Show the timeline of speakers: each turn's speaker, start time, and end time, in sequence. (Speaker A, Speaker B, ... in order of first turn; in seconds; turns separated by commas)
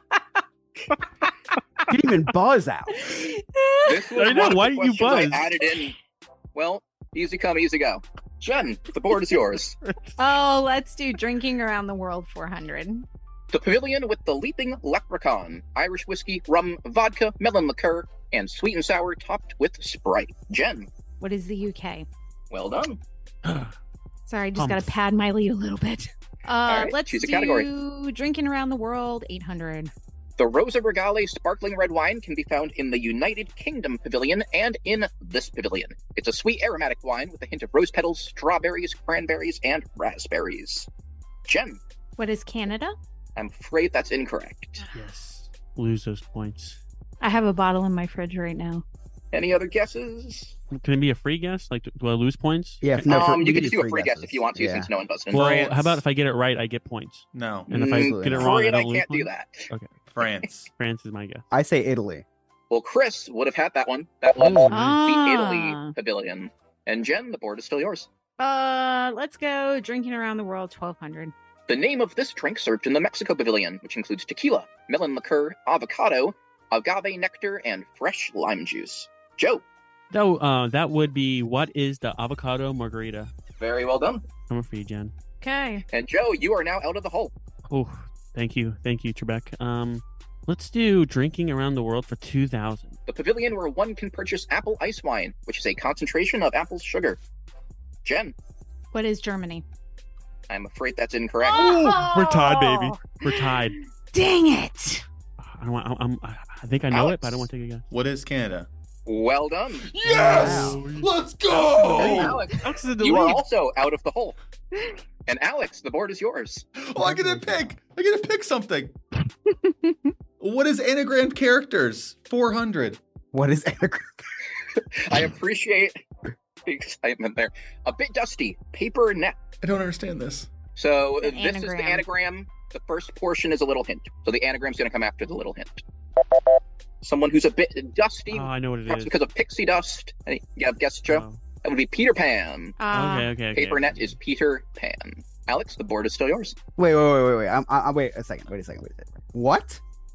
Speaker A: 1.9-3.0, Speaker B: 3.0-4.0, Speaker C: 3.9-5.9, Speaker D: 4.2-5.5, Speaker C: 6.5-9.8, Speaker D: 9.8-10.1, Speaker B: 10.2-13.1, Speaker C: 13.5-20.9, Speaker B: 21.2-22.1, Speaker C: 22.5-23.0, Speaker D: 23.4-23.8, Speaker B: 24.3-29.9, Speaker D: 24.6-24.9, Speaker C: 26.7-27.7, Speaker C: 30.4-40.9, Speaker C: 41.5-41.8, Speaker B: 42.2-43.0, Speaker C: 43.4-44.8, Speaker D: 44.9-46.8, Speaker B: 47.2-48.8, Speaker C: 49.3-50.6, Speaker D: 50.7-53.2, Speaker A: 52.8-54.9, Speaker C: 53.1-56.0, Speaker D: 55.3-59.9, Speaker E: 57.3-57.7, Speaker A: 57.7-58.6, Speaker C: 57.8-59.7, Speaker E: 60.1-60.7, Speaker D: 60.8-61.5, Speaker A: 61.5-62.2, Speaker C: 62.7-68.1, Speaker D: 64.4-65.0, Speaker B: 64.7-65.9, Speaker B: 68.4-71.3, Speaker C: 71.7-79.6, Speaker D: 80.1-83.3, Speaker C: 83.6-84.2, Speaker D: 84.5-85.1, Speaker B: 85.4-85.8, Speaker C: 85.9-87.3, Speaker D: 87.7-93.0, Speaker C: 93.1-97.2, Speaker C: 98.0-98.3, Speaker B: 98.9-99.6, Speaker C: 100.5-101.8, Speaker B: 101.4-105.0, Speaker D: 101.5-103.8, Speaker D: 105.4-107.8, Speaker C: 106.9-107.5, Speaker E: 107.9-108.7, Speaker C: 109.1-109.9, Speaker E: 109.9-112.4, Speaker D: 110.1-113.4, Speaker A: 110.2-110.8, Speaker C: 111.9-114.4, Speaker C: 115.3-116.7, Speaker E: 116.8-118.9, Speaker A: 117.0-117.5, Speaker B: 119.7-120.0, Speaker E: 120.4-123.0, Speaker A: 123.3-124.3, Speaker C: 124.9-126.0, Speaker C: 126.7-129.4, Speaker E: 129.6-130.5, Speaker C: 130.8-135.8, Speaker B: 131.2-132.1, Speaker C: 137.0-142.8, Speaker D: 138.3-139.2, Speaker D: 141.1-141.4, Speaker B: 142.8-143.3, Speaker D: 142.9-144.2, Speaker C: 143.5-146.6, Speaker A: 146.8-149.8